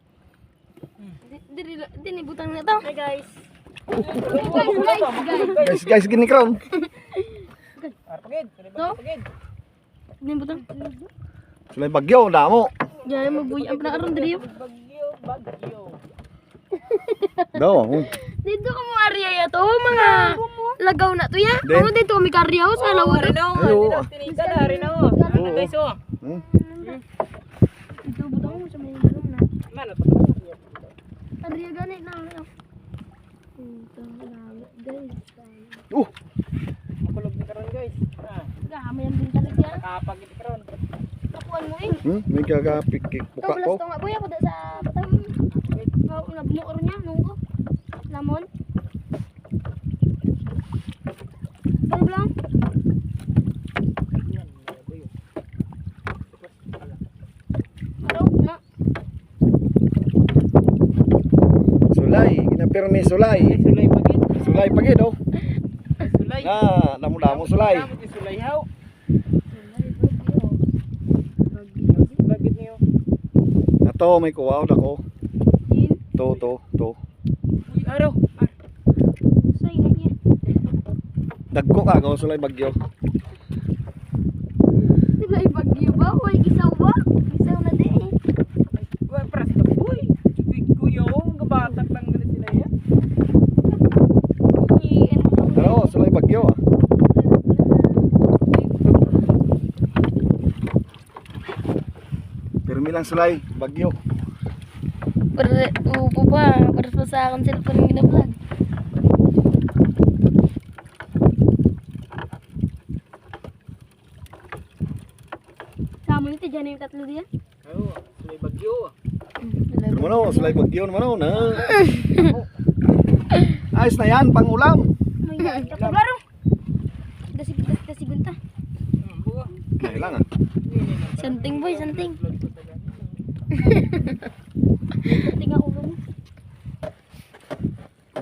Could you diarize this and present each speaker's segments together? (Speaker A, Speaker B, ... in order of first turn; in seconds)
Speaker A: 1.2-2.9, 4.2-5.7, 6.7-7.9, 10.2-11.1, 13.0-14.4, 16.7-23.4, 24.2-25.7, 26.2-27.0, 28.0-29.4, 31.4-32.5, 33.6-35.8, 38.6-39.8, 41.3-42.0, 43.4-45.3, 46.0-47.4, 48.1-48.5, 51.9-52.3, 58.0-58.6, 69.5-70.6, 71.5-72.2, 75.7-76.0, 79.4-80.1, 85.2-88.1, 94.5-96.0, 97.1-98.1, 105.3-108.4, 116.0-117.3, 119.4-120.6, 121.6-122.3, 125.2-126.2, 127.3-128.4, 131.2-132.2, 133.6-134.3, 135.0-136.0
Speaker B: 2.9-3.3, 3.9-6.0, 8.1-9.3, 13.0-16.0, 19.9-20.7, 22.7-26.0, 29.7-30.9, 37.0-38.5, 39.7-40.8, 45.5-45.9, 54.1-55.1, 56.3-57.0, 63.2-64.5, 66.0-66.7, 67.2-68.7, 71.9-72.8, 77.7-78.5, 88.7-92.7, 117.6-118.9, 121.3-122.5, 125.7-126.1, 129.0-133.2
Speaker C: 5.6-6.6, 11.7-12.7, 17.5-18.1, 21.6-21.9, 23.5-24.1, 25.3-25.7, 42.0-43.8, 61.9-63.6, 64.4-65.2, 66.4-67.9, 73.8-75.0, 76.2-77.0, 81.5-82.8, 95.5-96.6, 102.7-104.0, 119.9-121.7, 123.7-124.9, 129.8-130.2